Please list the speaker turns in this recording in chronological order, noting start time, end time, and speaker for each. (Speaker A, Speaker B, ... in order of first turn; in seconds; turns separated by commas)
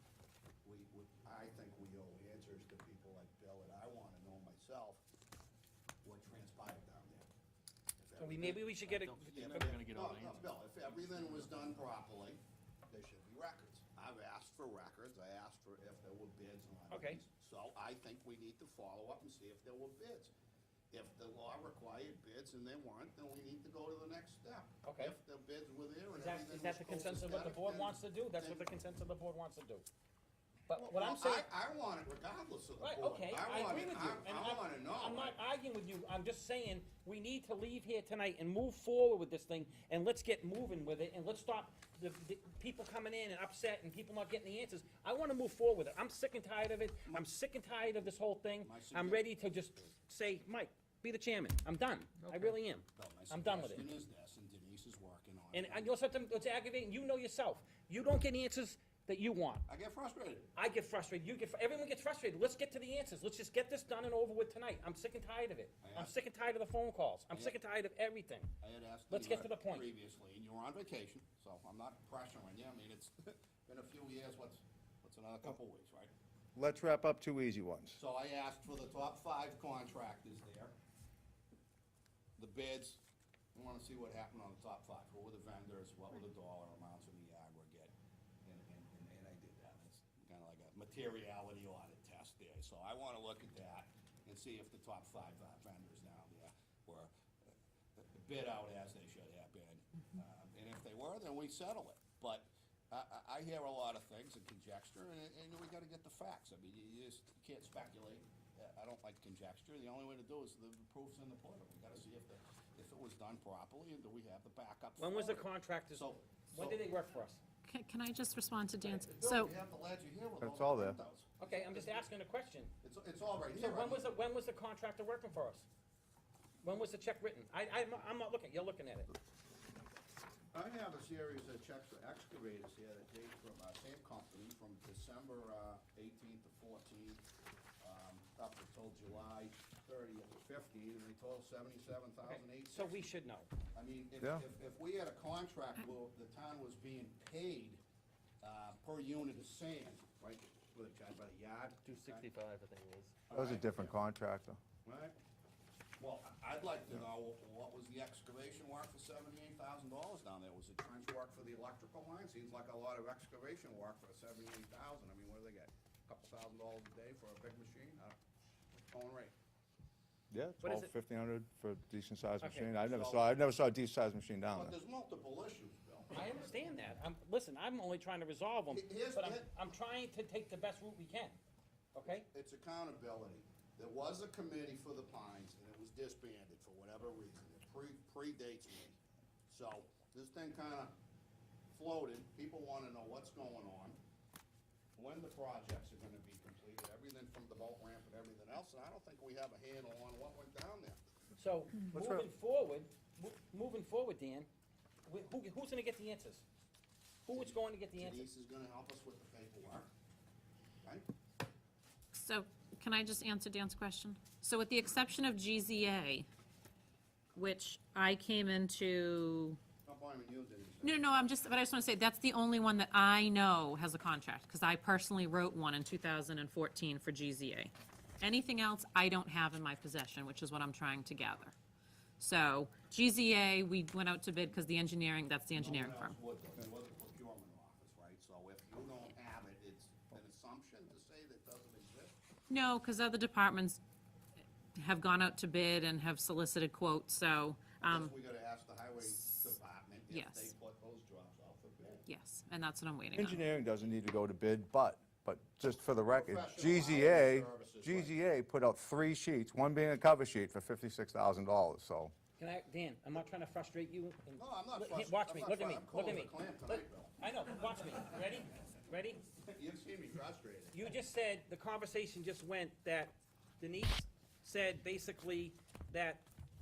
Speaker A: 0.6-5.0, Speaker A: 6.0-7.3, Speaker A: 8.0-20.3, Speaker B: 8.2-9.7, Speaker C: 8.8-10.6, Speaker B: 16.9-17.2, Speaker A: 20.9-28.7, Speaker B: 24.8-25.1, Speaker B: 26.1-29.9, Speaker B: 30.7-31.5, Speaker A: 30.7-35.4, Speaker B: 32.8-53.9, Speaker A: 48.6-49.3, Speaker C: 52.2-52.5, Speaker A: 52.9-55.9, Speaker B: 55.5-59.6, Speaker A: 59.7-60.5, Speaker B: 60.5-68.5, Speaker A: 65.8-66.1, Speaker A: 67.3-67.6, Speaker A: 68.6-76.1, Speaker B: 69.1-69.9, Speaker D: 76.5-78.0, Speaker A: 77.9-80.7, Speaker A: 82.4-83.0, Speaker A: 83.5-87.9, Speaker A: 88.4-97.1, Speaker A: 98.0-116.8, Speaker B: 115.0-117.4, Speaker E: 117.6-119.5, Speaker A: 118.8-122.1, Speaker D: 120.4-121.0, Speaker B: 121.4-122.7, Speaker A: 122.8-124.1, Speaker B: 123.5-125.7, Speaker B: 126.6-129.1, Speaker A: 130.5-137.2, Speaker A: 137.8-142.9, Speaker B: 142.2-143.5, Speaker A: 143.7-147.8, Speaker A: 148.4-152.3, Speaker C: 151.8-153.1, Speaker A: 153.3-153.9, Speaker D: 153.3-154.6, Speaker A: 154.8-155.1, Speaker A: 156.0-168.1, Speaker A: 168.8-169.3, Speaker D: 170.3-174.8, Speaker B: 170.6-170.9, Speaker B: 172.4-172.7, Speaker A: 172.8-173.3, Speaker A: 174.5-176.2, Speaker B: 176.1-181.4, Speaker A: 178.7-179.5, Speaker B: 181.9-182.3, Speaker A: 182.3-190.9, Speaker A: 191.7-194.0, Speaker A: 194.9-201.0, Speaker B: 201.4-204.5, Speaker D: 201.9-202.2, Speaker B: 205.1-206.4, Speaker B: 207.2-208.3, Speaker A: 207.3-209.9, Speaker E: 212.1-216.3, Speaker E: 217.3-219.6, Speaker A: 219.8-221.3, Speaker E: 220.8-231.5, Speaker E: 232.2-236.1, Speaker A: 235.6-242.2, Speaker E: 242.5-243.8, Speaker E: 244.7-248.1, Speaker A: 247.8-252.0, Speaker E: 250.1-250.5, Speaker E: 252.1-253.4, Speaker D: 253.1-262.1, Speaker A: 256.1-258.2, Speaker B: 262.4-269.2, Speaker A: 264.4-267.1, Speaker A: 269.4-270.8, Speaker B: 270.7-276.2